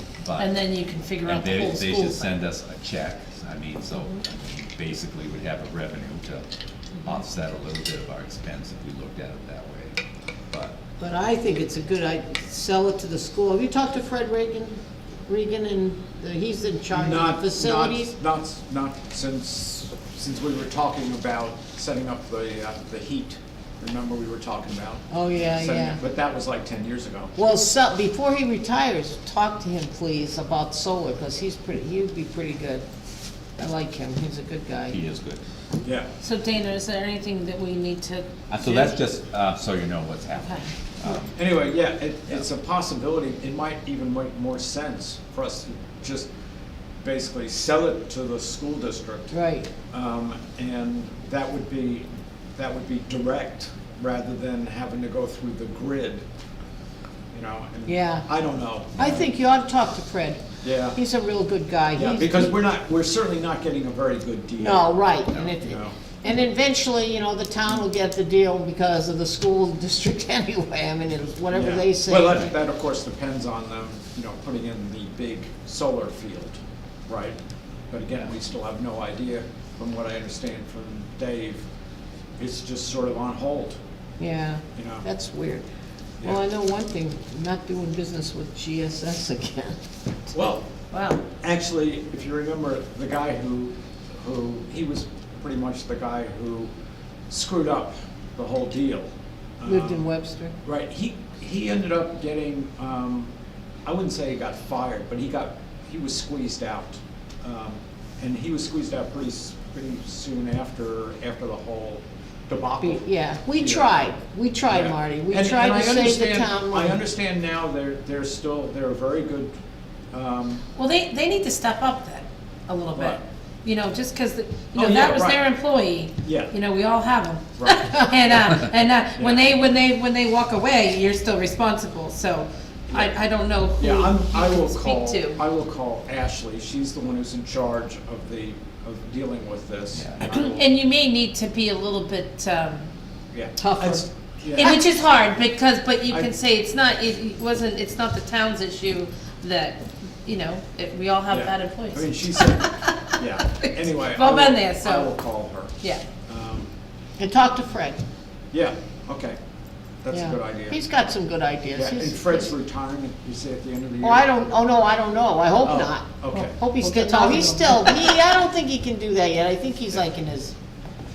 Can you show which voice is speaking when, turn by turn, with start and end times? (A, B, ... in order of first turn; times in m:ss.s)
0:00.2-0:00.6 A
0:00.4-0:02.3 B
0:01.2-0:06.4 A
0:07.0-0:10.0 A
0:10.5-0:10.8 A
0:11.0-0:14.7 C
0:15.3-0:18.1 C
0:16.9-0:27.3 D
0:25.1-0:26.0 C
0:27.4-0:32.8 C
0:33.6-0:35.0 C
0:34.9-0:35.4 A
0:35.8-0:36.1 D
0:36.2-0:39.0 B
0:38.5-0:41.4 A
0:40.4-0:40.7 B
0:41.3-0:46.3 D
0:47.0-0:49.4 D
0:49.3-0:49.7 C
0:49.9-0:56.2 D
0:57.3-0:59.2 D
0:57.8-0:58.2 C
0:59.0-1:00.4 C
1:00.6-1:01.0 D
1:00.9-1:02.5 C
1:01.9-1:05.9 D
1:04.6-1:12.5 C
1:11.5-1:17.4 D
1:17.9-1:21.6 D
1:22.4-1:23.8 D
1:24.2-1:25.6 C
1:24.7-1:25.0 D
1:26.2-1:29.8 C
1:30.3-1:30.7 D
1:30.9-1:31.2 B
1:31.2-1:36.7 D
1:37.3-1:43.3 D
1:39.6-1:40.5 C
1:43.8-1:53.9 D
1:52.8-1:57.0 C
1:54.7-1:59.5 D
2:00.1-2:00.6 D
2:00.8-2:15.4 B
2:04.7-2:05.4 D
2:06.2-2:06.5 D
2:07.6-2:08.1 D
2:09.2-2:09.5 D
2:13.8-2:20.7 D
2:19.9-2:20.2 A
2:20.3-2:22.9 B
2:23.3-2:24.8 D
2:23.6-2:23.9 B
2:24.6-2:33.0 B
2:31.3-2:36.7 D
2:33.6-2:35.1 B
2:37.2-2:38.0 C
2:38.5-2:39.4 D
2:40.0-2:40.8 D
2:40.1-2:42.5 C
2:41.7-2:44.3 D
2:44.0-2:50.5 C
2:45.6-2:46.6 D
2:46.3-2:48.0 B